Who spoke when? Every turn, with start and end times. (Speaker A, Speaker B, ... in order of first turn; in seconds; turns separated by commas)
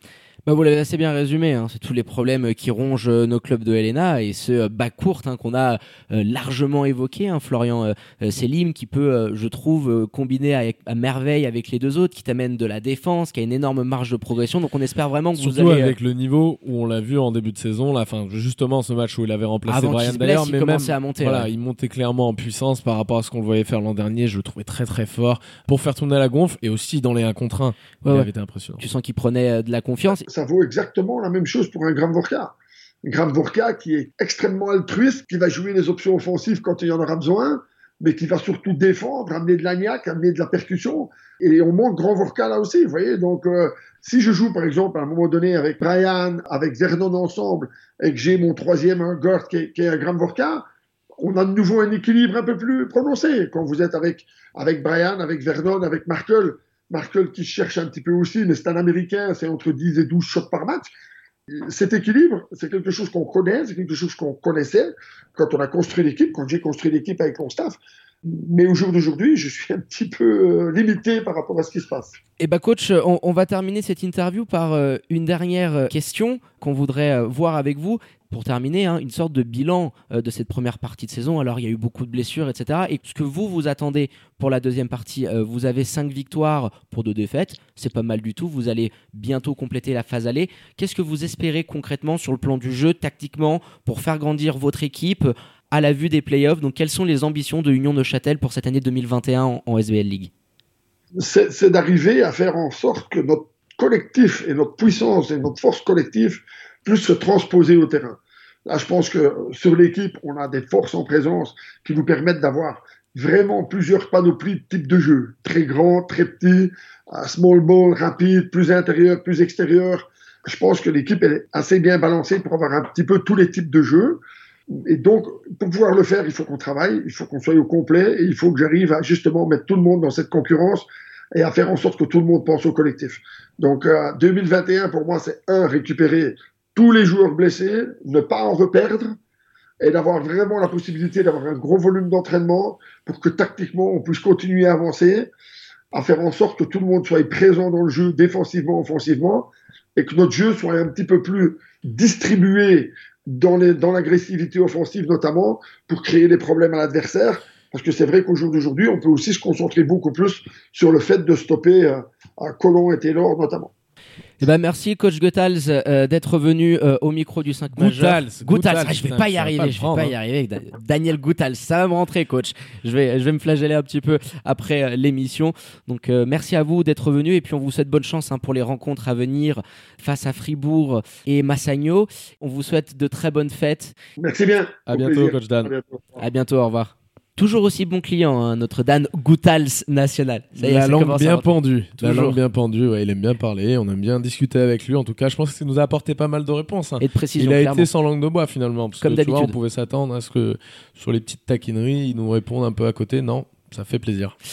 Speaker A: 0.5-16.0, Speaker B: 15.3-28.8, Speaker A: 19.7-21.5, Speaker A: 28.0-30.2, Speaker C: 30.1-50.6, Speaker C: 51.2-60.9, Speaker C: 61.5-72.2, Speaker A: 72.4-100.3, Speaker C: 101.2-124.2, Speaker C: 124.8-139.2, Speaker C: 139.8-145.3, Speaker C: 145.9-163.7, Speaker A: 164.4-183.9, Speaker B: 167.8-170.2, Speaker C: 184.2-186.2, Speaker B: 184.9-185.7, Speaker A: 186.2-192.4, Speaker B: 190.6-204.3, Speaker A: 197.0-197.9, Speaker A: 199.0-199.6